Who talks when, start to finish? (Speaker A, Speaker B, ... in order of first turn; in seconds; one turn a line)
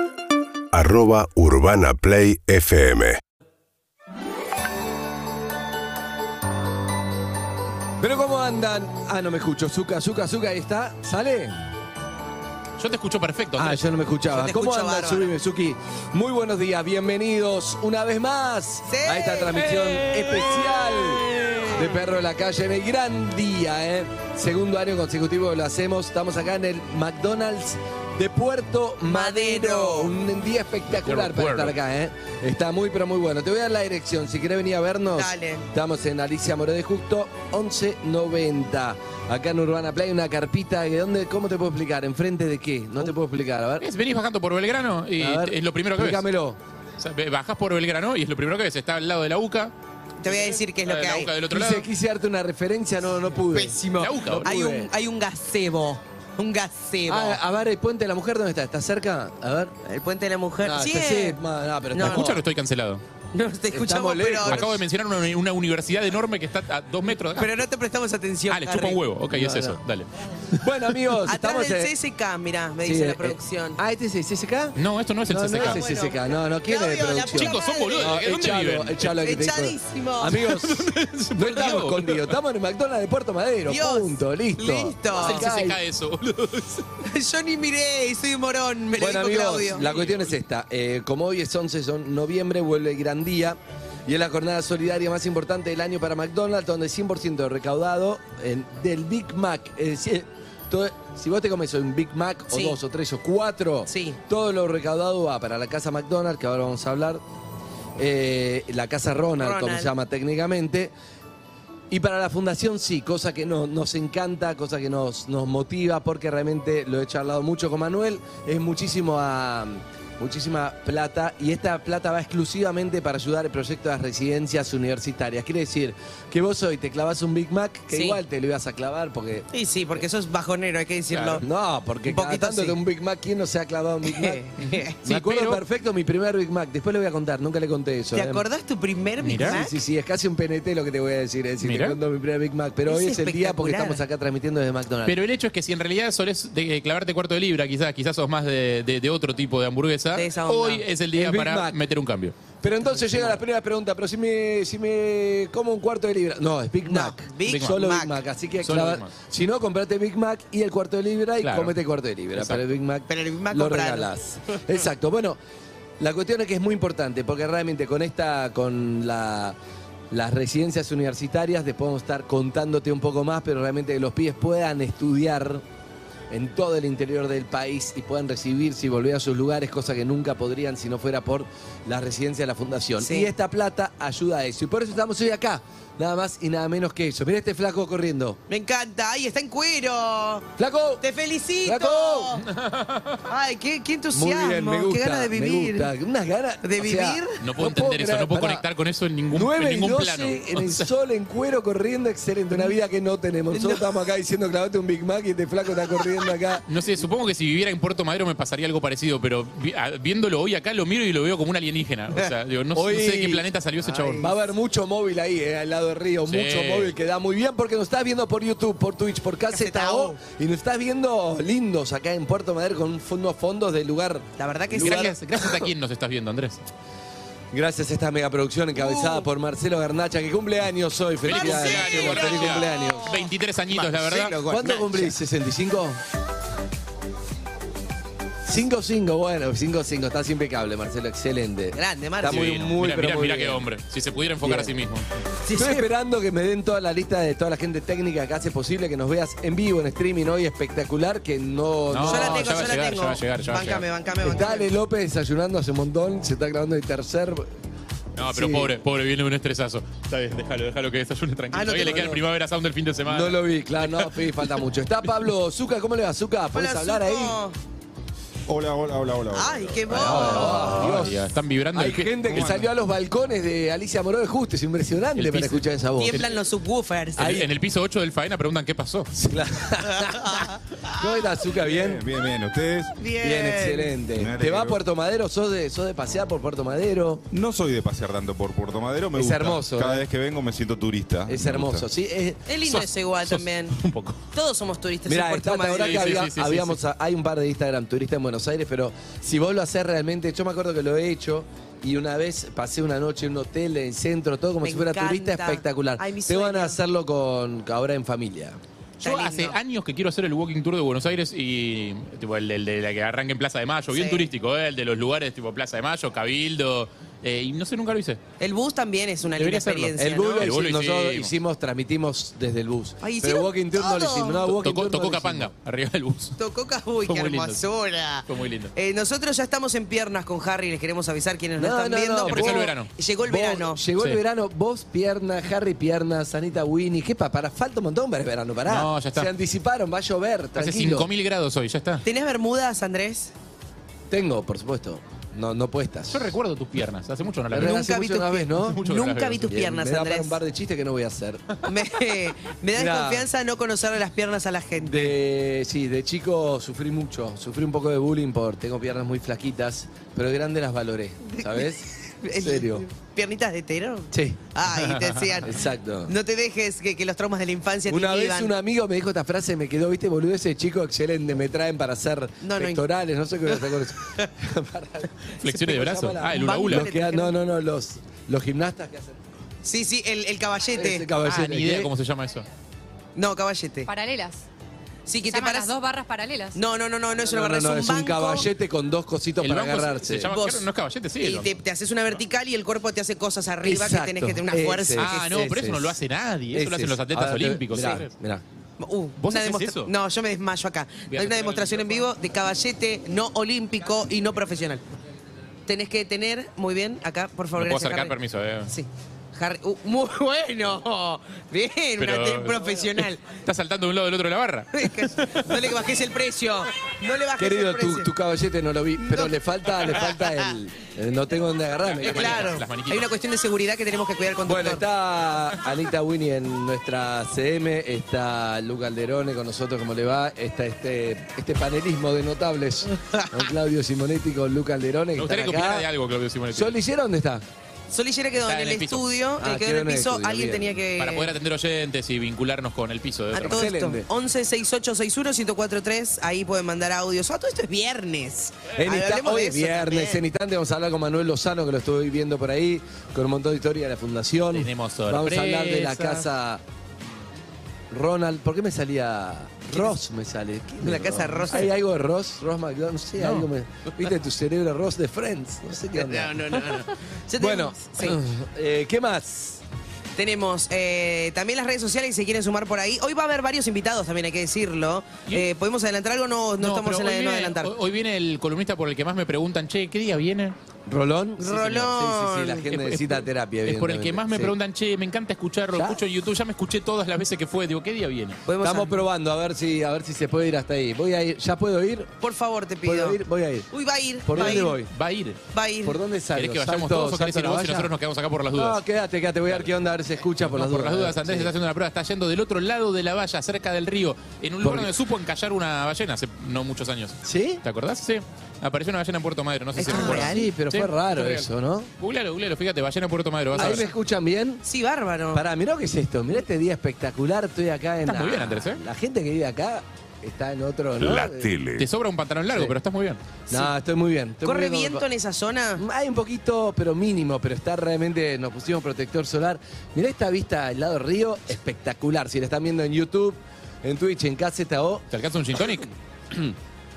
Speaker A: 0.7-3.2
Speaker B: 8.0-11.6
Speaker C: 12.8-13.8
Speaker B: 13.6-43.9
Speaker D: 14.3-15.3
Speaker D: 18.9-20.3
Speaker D: 29.1-30.1
Speaker C: 30.9-31.8
Speaker D: 35.1-35.6
Speaker C: 43.8-46.2
Speaker B: 45.2-46.6
Speaker C: 47.0-49.7
Speaker D: 50.2-51.3
Speaker C: 50.3-51.9
Speaker B: 51.5-54.9
Speaker D: 53.5-57.4
Speaker C: 54.0-54.5
Speaker B: 57.1-59.7
Speaker D: 59.8-61.4
Speaker B: 60.6-62.4
Speaker D: 61.9-62.3
Speaker C: 62.0-63.0
Speaker D: 63.3-64.7
Speaker B: 63.7-64.7
Speaker C: 64.4-67.6
Speaker D: 67.3-69.0
Speaker C: 68.5-70.1
Speaker B: 69.3-69.8
Speaker B: 70.5-71.9
Speaker D: 71.2-73.8
Speaker B: 72.8-74.8
Speaker C: 74.8-75.8
Speaker B: 75.3-85.8
Speaker D: 75.6-78.2
Speaker C: 77.3-79.1
Speaker D: 79.2-80.4
Speaker C: 80.3-82.3
Speaker D: 83.7-85.4
Speaker C: 85.1-86.8
Speaker D: 87.0-89.8
Speaker B: 89.0-107.2
Speaker C: 89.8-90.2
Speaker D: 102.5-102.8
Speaker D: 103.9-104.2
Speaker B: 108.0-110.9
Speaker D: 109.4-109.9
Speaker B: 111.9-129.4
Speaker D: 127.9-128.2
Speaker D: 129.5-131.4
Speaker C: 131.1-131.4
Speaker B: 131.4-134.4
Speaker D: 132.0-132.8
Speaker D: 134.1-134.9
Speaker C: 134.6-135.6
Speaker B: 135.0-138.4
Speaker D: 138.1-139.8
Speaker C: 139.2-139.6
Speaker B: 139.4-145.2
Speaker C: 141.6-142.0
Speaker D: 142.9-144.0
Speaker C: 145.0-152.3
Speaker D: 150.1-150.8
Speaker B: 151.1-151.8
Speaker B: 152.6-165.4
Speaker C: 153.0-153.3
Speaker D: 156.8-158.2
Speaker C: 157.4-157.8
Speaker C: 158.6-159.1
Speaker C: 161.4-161.7
Speaker C: 162.3-162.6
Speaker D: 163.1-164.1
Speaker B: 166.0-169.6
Speaker B: 170.1-175.6
Speaker B: 176.3-188.4
Speaker D: 183.0-183.3
Speaker D: 188.5-190.5
Speaker B: 190.6-191.0
Speaker D: 191.0-192.4
Speaker B: 191.6-192.4
Speaker C: 192.4-193.2
Speaker D: 193.2-195.9
Speaker B: 194.1-198.6
Speaker D: 196.6-197.4
Speaker C: 197.4-200.9
Speaker B: 199.3-206.6
Speaker D: 203.5-203.8
Speaker C: 206.7-214.3
Speaker B: 212.7-213.4
Speaker D: 213.8-214.3
Speaker B: 214.1-225.2
Speaker C: 216.3-216.9
Speaker D: 219.5-220.2
Speaker D: 224.4-225.1
Speaker C: 224.7-226.6
Speaker B: 227.5-233.2
Speaker D: 228.8-229.2
Speaker C: 231.2-234.4
Speaker D: 231.3-235.1
Speaker B: 234.4-236.0
Speaker B: 238.4-243.7
Speaker D: 241.7-242.5
Speaker C: 242.2-245.1
Speaker B: 244.4-244.8
Speaker D: 245.4-245.8
Speaker B: 245.5-252.7
Speaker C: 251.9-253.8
Speaker D: 252.0-254.7
Speaker B: 254.2-257.5
Speaker C: 258.1-264.5
Speaker B: 258.2-258.7
Speaker D: 261.5-262.2
Speaker B: 261.7-262.2
Speaker B: 263.0-267.4
Speaker D: 266.5-267.5
Speaker E: 268.5-269.9
Speaker D: 269.3-270.9
Speaker B: 269.9-276.2
Speaker C: 270.0-272.4
Speaker E: 272.3-272.7
Speaker C: 275.1-276.2
Speaker D: 276.0-277.4
Speaker C: 277.1-279.1
Speaker B: 277.2-277.5
Speaker B: 279.1-280.4
Speaker D: 279.9-281.0
Speaker B: 280.9-282.0
Speaker E: 281.6-282.9
Speaker D: 283.0-284.0
Speaker B: 283.2-287.2
Speaker E: 284.2-284.8
Speaker E: 287.3-291.9
Speaker B: 289.1-290.1
Speaker B: 291.3-292.4
Speaker D: 292.5-293.8
Speaker C: 292.6-294.2
Speaker D: 294.3-296.2
Speaker B: 295.1-308.6
Speaker C: 295.7-296.8
Speaker D: 304.6-306.8
Speaker D: 309.0-309.6
Speaker C: 309.0-318.2
Speaker D: 313.9-314.3
Speaker D: 318.4-320.5
Speaker C: 319.4-321.3
Speaker B: 320.0-325.5
Speaker D: 323.0-324.5
Speaker C: 324.6-326.4
Speaker D: 326.4-333.8
Speaker C: 327.0-327.6
Speaker C: 328.3-328.7
Speaker B: 331.6-341.1
Speaker C: 332.2-332.9
Speaker C: 338.6-339.3
Speaker C: 340.6-342.0
Speaker D: 342.0-343.3
Speaker B: 344.1-346.2
Speaker C: 346.1-347.9
Speaker B: 347.5-348.8
Speaker D: 347.5-350.4
Speaker C: 348.6-349.5
Speaker B: 349.4-351.4
Speaker D: 351.6-355.1
Speaker B: 352.7-353.3
Speaker B: 354.8-362.9
Speaker D: 361.4-368.5
Speaker B: 364.1-364.4
Speaker B: 365.4-366.1
Speaker B: 367.9-379.2
Speaker D: 372.4-372.8
Speaker C: 375.4-376.9
Speaker D: 376.2-377.3
Speaker D: 379.6-381.1
Speaker B: 380.7-381.9
Speaker C: 381.2-382.4
Speaker D: 383.1-383.9
Speaker F: 383.8-384.4
Speaker D: 385.1-385.7
Speaker F: 385.2-386.6
Speaker D: 386.5-388.5
Speaker B: 387.1-390.3
Speaker C: 389.4-391.6
Speaker D: 390.3-390.7
Speaker D: 391.2-395.3
Speaker B: 393.6-396.0
Speaker C: 395.0-398.1
Speaker B: 396.5-398.4
Speaker D: 398.8-404.8
Speaker C: 399.2-399.9
Speaker C: 401.1-402.1
Speaker D: 405.7-408.1
Speaker C: 407.6-408.7
Speaker D: 408.7-413.2
Speaker C: 412.0-412.8
Speaker C: 413.4-415.6
Speaker D: 414.7-418.1
Speaker B: 417.4-422.6
Speaker D: 419.0-420.3
Speaker C: 422.0-423.1
Speaker D: 422.0-424.8
Speaker B: 424.4-435.9
Speaker D: 433.1-433.4
Speaker C: 435.2-436.7
Speaker B: 436.5-437.4
Speaker D: 437.9-441.3
Speaker C: 438.4-439.0
Speaker B: 439.4-440.8
Speaker C: 441.0-443.7
Speaker D: 443.3-450.2
Speaker B: 443.3-444.1
Speaker B: 448.8-456.6
Speaker C: 454.5-456.3
Speaker B: 457.9-466.8
Speaker D: 460.8-461.7
Speaker C: 463.2-463.5
Speaker D: 465.9-468.2
Speaker B: 467.4-469.6
Speaker D: 470.1-477.7
Speaker C: 476.6-480.6
Speaker B: 480.9-484.5
Speaker D: 481.4-482.7
Speaker C: 482.7-488.4
Speaker B: 485.7-486.0
Speaker D: 488.5-489.0
Speaker B: 488.6-492.1
Speaker D: 492.2-493.2
Speaker B: 492.8-493.7
Speaker D: 493.7-494.8
Speaker B: 494.2-494.9
Speaker C: 494.3-495.4
Speaker D: 495.5-496.0
Speaker B: 495.8-497.9
Speaker C: 496.3-498.8
Speaker B: 498.5-501.5
Speaker C: 500.4-511.5
Speaker B: 504.6-504.9
Speaker B: 507.2-507.6
Speaker D: 509.8-510.5
Speaker B: 509.9-511.9
Speaker C: 512.0-513.9
Speaker B: 513.5-514.6
Speaker D: 513.5-513.8
Speaker D: 514.6-515.4
Speaker B: 515.3-521.6
Speaker C: 518.0-518.8
Speaker E: 521.0-521.8
Speaker C: 521.8-523.2
Speaker B: 523.5-525.0
Speaker D: 524.4-525.8
Speaker B: 525.8-535.0
Speaker C: 535.1-535.9